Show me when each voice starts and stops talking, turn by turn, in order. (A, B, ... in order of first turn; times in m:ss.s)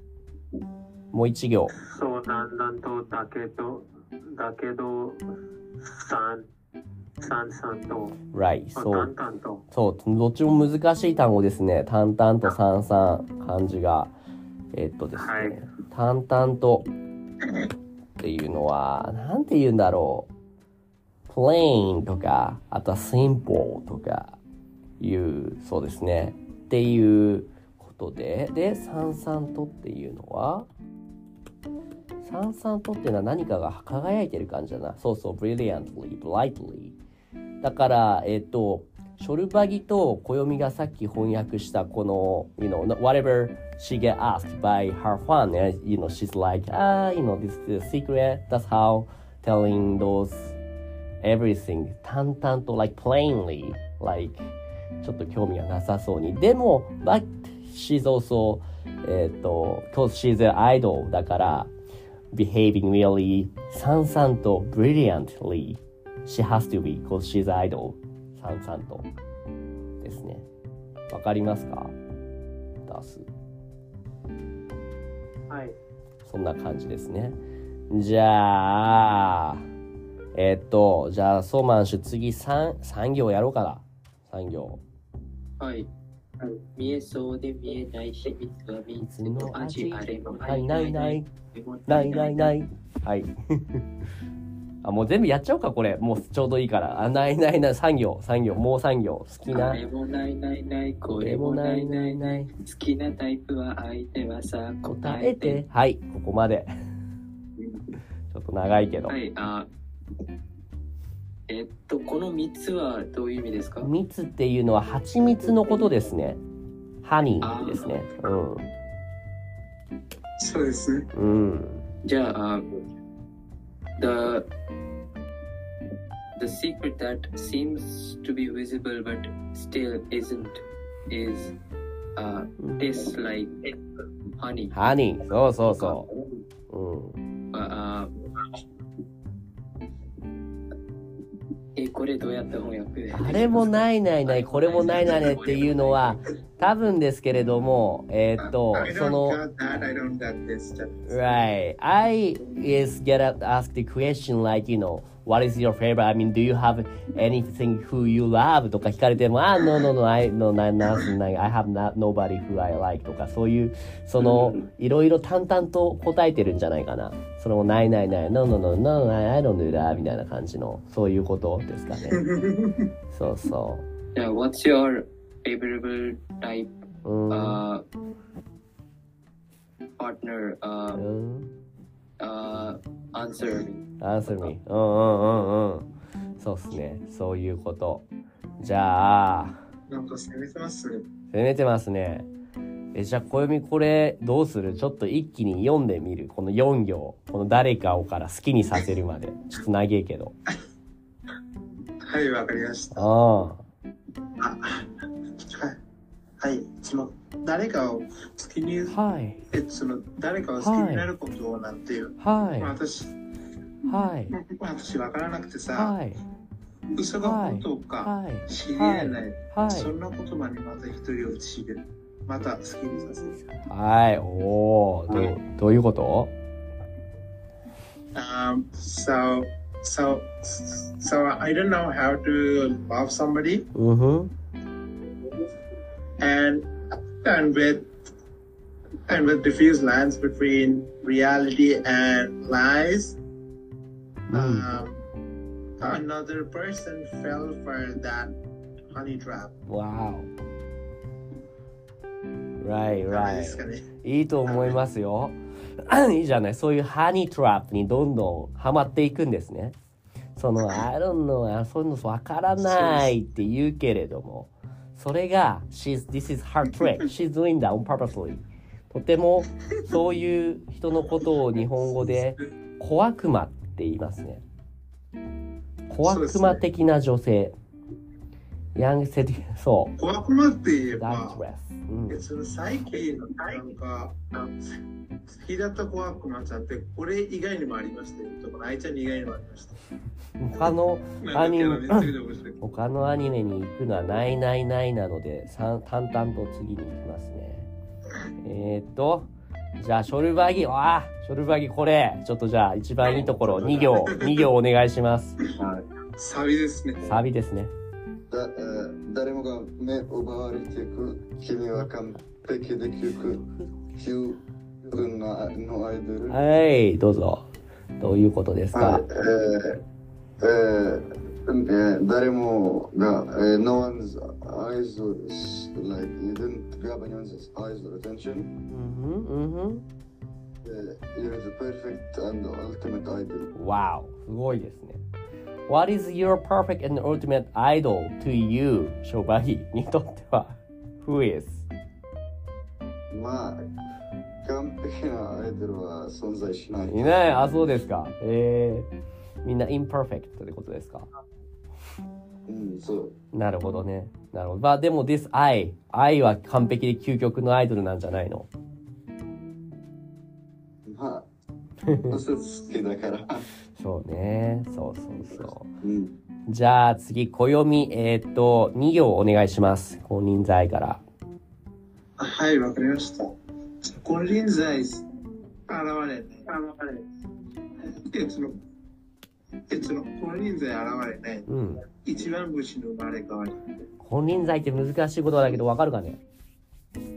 0:01.1-0:01.7 A
0:01.8-0:05.3 B
0:05.8-0:06.5 B
0:07.2-0:08.2 B
0:08.3-0:09.1 A
0:08.8-0:09.6 B
0:09.7-0:14.1 A
0:14.7-0:16.9 A
0:15.2-0:15.6 B
0:18.2-0:20.3 A
0:21.3-0:24.4 A
0:25.0-0:30.7 A
0:32.2-0:37.0 A
0:37.6-0:50.6 A
0:51.2-1:01.7 A
1:02.3-1:09.1 A
1:10.0-1:10.5 A
1:11.1-1:12.0 A
1:12.8-1:13.3 A
1:15.5-1:15.8 B
1:16.2-1:17.4 A
1:17.9-1:19.6 A
1:20.3-1:24.8 A
1:25.6-1:25.9 C
1:26.8-1:32.6 C
1:29.0-1:31.3 A
1:31.9-1:33.8 A
1:34.8-1:39.8 A
1:39.5-1:45.6 C
1:41.2-1:42.5 A
1:44.9-1:46.7 A
1:48.3-1:49.2 A
1:49.1-1:49.7 C
1:51.5-1:53.9 C
1:53.8-1:56.4 A
1:55.2-1:56.0 C
1:57.0-1:58.7 A
1:57.4-1:58.2 C
2:00.4-2:01.1 D
2:01.1-2:01.8 A
2:02.0-2:02.8 C
2:04.0-2:04.5 C
2:06.4-2:11.5 C
2:12.2-2:13.7 C
2:12.6-2:12.9 A
2:14.4-2:14.8 C
2:14.7-2:16.1 A
2:15.7-2:16.2 C
2:16.7-2:17.2 A
2:17.5-2:18.1 C
2:21.8-2:26.2 C
2:23.1-2:29.4 A
2:28.5-2:31.3 D
2:31.1-2:52.2 A
2:44.2-2:44.7 C
2:52.1-2:52.9 D
2:53.1-2:53.8 A
2:54.2-2:56.7 C
2:57.0-2:57.6 A
2:57.3-2:57.8 C
3:00.0-3:01.0 C
3:01.0-3:01.5 A
3:02.2-3:03.8 C
3:04.0-3:05.9 A
3:06.4-3:08.1 A
3:08.6-3:09.6 A
3:09.9-3:11.0 D
3:11.3-3:12.3 A
3:12.9-3:20.4 A
3:22.1-3:23.1 D
3:22.9-3:23.6 A
3:24.4-3:24.9 D
3:25.4-3:25.8 D
3:26.4-3:29.0 D
3:28.9-3:29.4 A
3:29.5-3:33.1 D
3:30.6-3:31.1 A
3:32.2-3:32.7 A
3:33.9-3:34.3 A
3:34.3-3:35.9 D
3:35.7-3:36.2 A
3:37.0-3:43.4 D
3:37.2-3:39.9 A
3:43.7-3:46.3 A
3:48.2-3:53.7 D
3:53.8-3:54.3 A
3:56.2-3:57.9 D
3:59.1-4:03.2 D
4:04.3-4:04.8 A
4:04.3-4:05.0 D
4:05.8-4:08.3 D
4:08.9-4:09.5 D
4:09.7-4:10.3 A
4:12.6-4:19.8 A
4:13.1-4:13.8 D
4:14.5-4:14.8 D
4:20.4-4:34.4 A
4:22.6-4:23.1 D
4:31.6-4:32.4 D
4:35.9-4:37.5 A
4:36.0-4:36.6 D
4:38.8-4:39.9 A
4:40.0-4:41.4 D
4:40.9-4:42.2 A
4:42.1-4:44.2 D
4:45.3-4:49.8 D
4:50.4-4:57.7 A
4:51.2-4:52.6 D
4:58.4-5:05.4 A
5:03.0-5:04.5 D
5:06.2-5:07.2 D
5:07.0-5:07.7 A
5:08.3-5:16.4 E
5:16.3-5:17.5 A
5:18.0-5:19.0 A
5:18.7-5:19.8 E
5:20.4-5:28.5 E
5:28.7-5:29.8 A
5:30.6-5:33.5 E
5:33.6-5:35.0 A
5:35.7-5:41.7 A
5:43.1-5:43.6 E
5:44.4-5:47.8 E
5:46.9-5:48.9 A
5:49.4-5:51.1 A
5:52.5-5:53.1 E
5:53.3-5:58.5 A
6:00.8-6:01.3 E
6:01.8-6:02.2 A
6:02.1-6:03.4 E
6:03.8-6:05.7 A
6:05.8-6:06.1 E
6:06.5-6:11.0 A
6:12.2-6:15.0 D
6:15.7-6:16.5 D
6:16.5-6:17.0 B
6:17.8-6:18.6 D
6:19.7-6:21.5 D
6:21.5-6:21.8 A
6:22.0-6:23.9 D
6:24.0-6:26.2 A